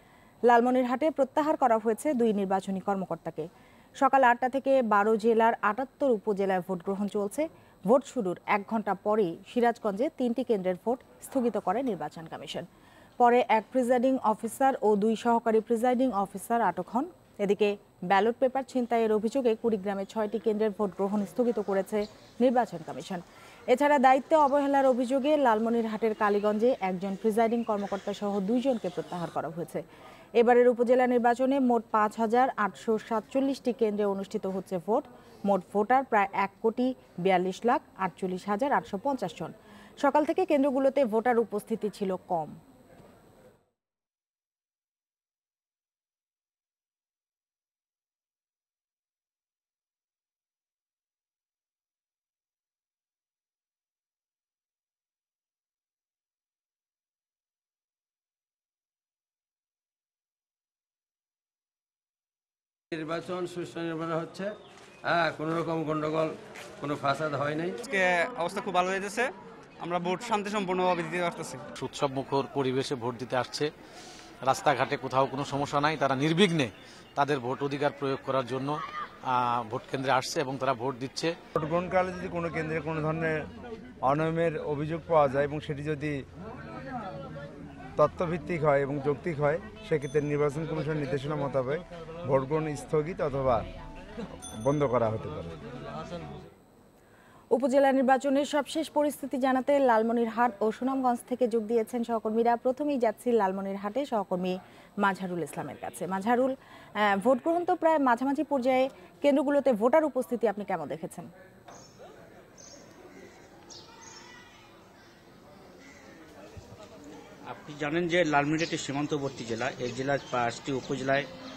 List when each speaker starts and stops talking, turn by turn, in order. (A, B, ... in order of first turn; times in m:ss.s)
0:00.5-0:03.5 A
0:04.0-0:12.7 A
0:13.2-0:29.8 A
0:30.4-0:42.6 A
1:02.9-1:04.5 B
1:05.0-1:07.8 B
1:07.8-1:11.6 C
1:11.8-1:13.7 D
1:14.4-1:18.8 D
1:19.3-1:21.3 D
1:21.6-1:23.5 E
1:24.0-1:26.2 E
1:28.0-1:33.6 E
1:34.6-1:35.5 E
1:37.5-1:51.3 A
1:57.5-2:01.3 F